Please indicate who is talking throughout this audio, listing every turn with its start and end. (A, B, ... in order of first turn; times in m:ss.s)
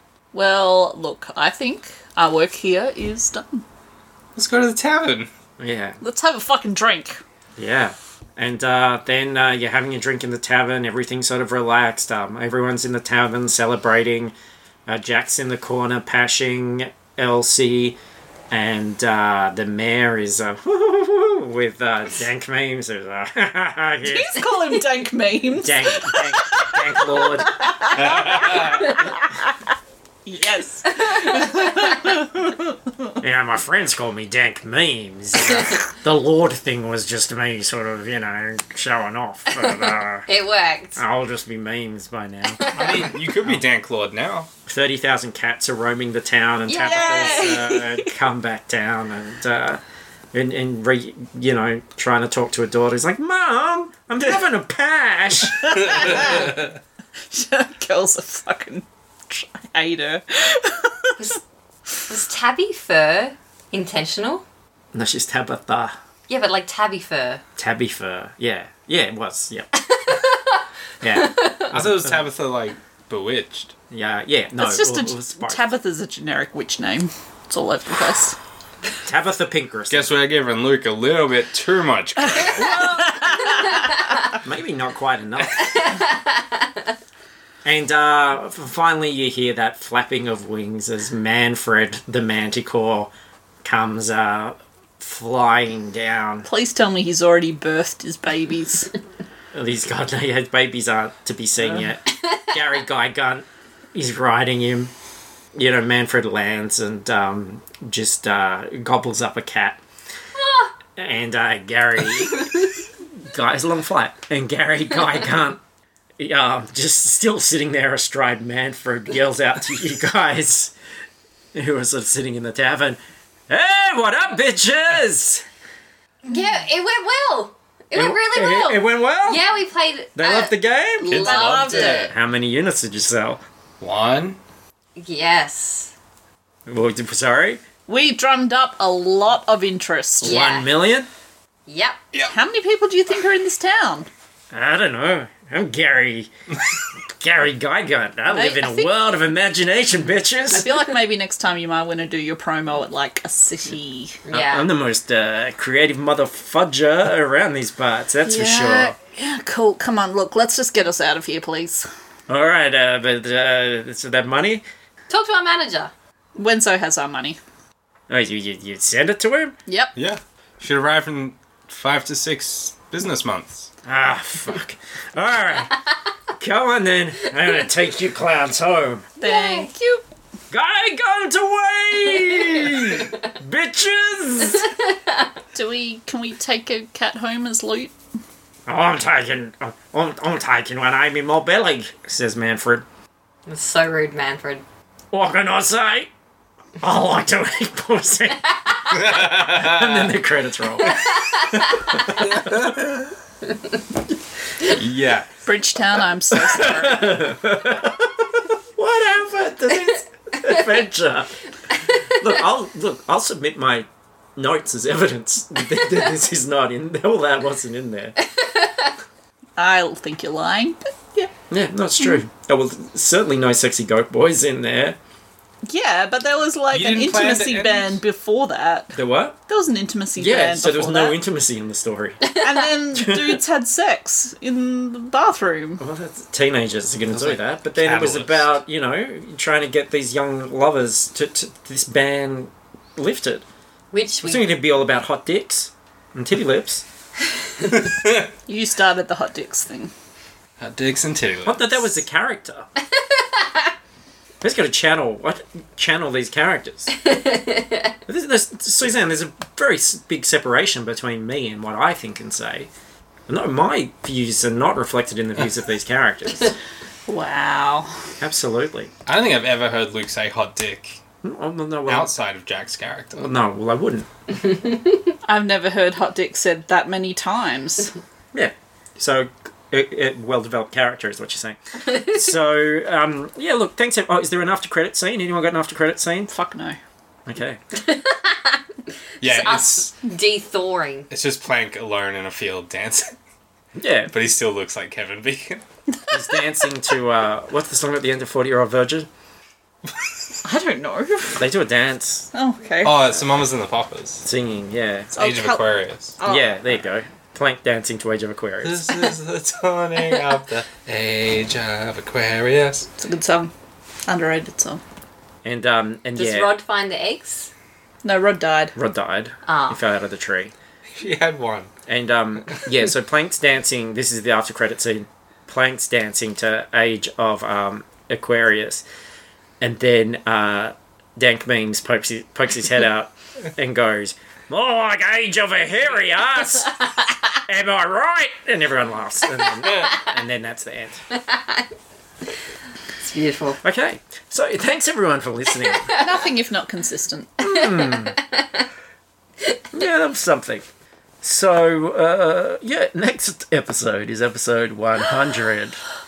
0:00.3-0:03.6 A
0:04.4-0:05.3 B
0:05.6-0:06.0 C
0:06.0-0:07.2 A
0:07.6-0:14.3 C
0:14.9-0:18.0 C
0:18.5-0:24.4 C
0:24.0-0:29.6 A
0:25.6-0:28.6 C
0:27.9-0:29.0 B
0:30.2-0:33.0 A
0:30.9-0:31.9 D
0:33.2-0:40.3 C
0:39.5-0:41.0 D
0:41.0-0:43.6 C
0:42.6-0:43.2 D
0:42.7-0:44.5 B
0:44.7-0:49.8 C
0:46.7-0:47.7 D
0:46.8-0:48.1 A
0:50.3-0:56.4 C
0:55.5-0:56.6 A
0:55.8-0:56.6 B
0:57.3-1:01.4 A
1:02.0-1:04.4 D
1:04.9-1:06.0 C
1:06.3-1:07.4 D
1:07.6-1:09.7 C
1:09.8-1:11.7 D
1:11.0-1:12.3 C
1:11.7-1:13.8 B
1:13.9-1:15.7 C
1:14.6-1:18.4 A
1:19.0-1:20.1 C
1:19.9-1:22.8 B
1:22.4-1:24.0 A
1:22.6-1:23.3 C
1:24.3-1:26.0 C
1:25.6-1:26.7 D
1:27.6-1:33.1 C
1:33.6-1:36.5 C
1:36.5-1:38.9 A
1:39.5-1:44.9 C
1:45.6-1:49.8 C
1:50.4-1:50.7 D
1:51.0-1:52.5 C
1:53.3-1:55.6 C
1:56.2-2:00.7 C
2:01.5-2:03.0 C
2:03.5-2:05.4 C
2:06.3-2:12.1 D
2:07.9-2:09.4 C
2:10.2-2:11.2 C
2:11.0-2:12.1 A
2:11.1-2:12.1 B
2:12.1-2:13.4 C
2:13.8-2:14.4 B
2:15.0-2:15.9 D
2:16.7-2:17.6 C
2:17.9-2:20.4 A
2:20.2-2:20.7 D
2:20.2-2:21.1 C
2:21.7-2:22.0 D
2:22.3-2:24.1 A
2:24.5-2:26.3 C
2:27.1-2:30.8 C
2:28.3-2:28.9 A
2:30.5-2:34.2 A
2:34.3-2:34.7 D
2:34.3-2:39.0 C
2:38.2-2:41.9 A
2:42.3-2:44.6 C
2:45.1-2:45.9 D
2:46.4-2:47.4 A
2:48.1-2:49.5 C
2:49.7-2:49.9 A
2:50.0-2:53.7 B
2:53.8-2:55.8 C
2:56.4-2:59.1 C
2:59.2-3:00.0 A
2:59.2-2:59.7 D
3:00.5-3:04.7 C
3:05.5-3:07.9 A
3:08.7-3:12.9 C
3:13.5-3:14.6 D
3:15.1-3:16.1 C
3:16.8-3:21.2 C
3:18.9-3:20.2 B
3:20.8-3:22.2 D
3:22.3-3:23.1 B
3:24.7-3:25.3 B
3:25.4-3:27.3 A
3:26.3-3:31.4 C
3:32.0-3:38.2 C
3:38.2-3:38.9 D
3:39.6-3:41.3 A
3:41.5-3:45.0 C
3:45.7-3:51.2 A
3:46.7-3:48.0 B
3:49.0-3:49.4 C
3:50.2-3:52.3 C
3:52.4-3:55.8 A
3:52.9-3:53.4 C
3:55.8-4:03.4 C
3:57.1-3:58.5 B
4:03.9-4:04.5 D
4:04.2-4:06.9 C
4:07.7-4:08.3 B
4:08.5-4:09.9 A
4:10.6-4:11.9 B
4:11.4-4:12.7 C
4:13.0-4:13.7 D
4:14.4-4:16.9 C
4:17.0-4:17.9 D
4:18.1-4:22.7 C
4:23.3-4:26.5 C
4:27.1-4:27.9 A
4:28.2-4:28.9 C
4:29.1-4:31.0 B
4:31.2-4:32.1 C
4:31.9-4:33.3 B
4:33.2-4:34.1 C
4:34.4-4:35.1 D
4:35.2-4:37.9 A
4:38.3-4:46.3 C
4:46.3-4:46.8 A
4:47.3-4:47.6 C
4:47.7-4:48.6 D
4:49.2-4:51.1 D
4:49.2-4:49.9 B
4:51.1-4:53.1 B
4:53.8-4:54.1 C
4:54.1-4:55.6 B
4:56.1-4:59.1 C
5:00.4-5:01.5 A
5:01.4-5:02.3 C
5:02.3-5:03.0 A
5:02.8-5:04.3 B
5:04.2-5:05.1 C
5:05.1-5:05.6 A
5:05.1-5:06.2 B
5:06.2-5:06.5 A
5:06.2-5:09.0 C
5:08.6-5:12.9 B
5:13.0-5:13.5 A
5:14.1-5:14.8 A
5:15.4-5:16.5 C
5:16.2-5:17.5 D
5:18.0-5:18.8 A
5:18.8-5:20.5 C
5:19.5-5:19.8 D
5:20.9-5:21.7 B
5:21.9-5:28.8 C
5:29.6-5:36.8 C
5:37.5-5:41.0 C
5:41.1-5:41.7 D
5:43.0-5:43.6 D
5:43.6-5:46.0 C
5:45.6-5:46.0 D
5:45.9-5:47.9 A
5:47.4-5:48.2 C
5:47.9-5:48.5 D
5:49.7-5:50.6 C
5:51.2-5:55.8 C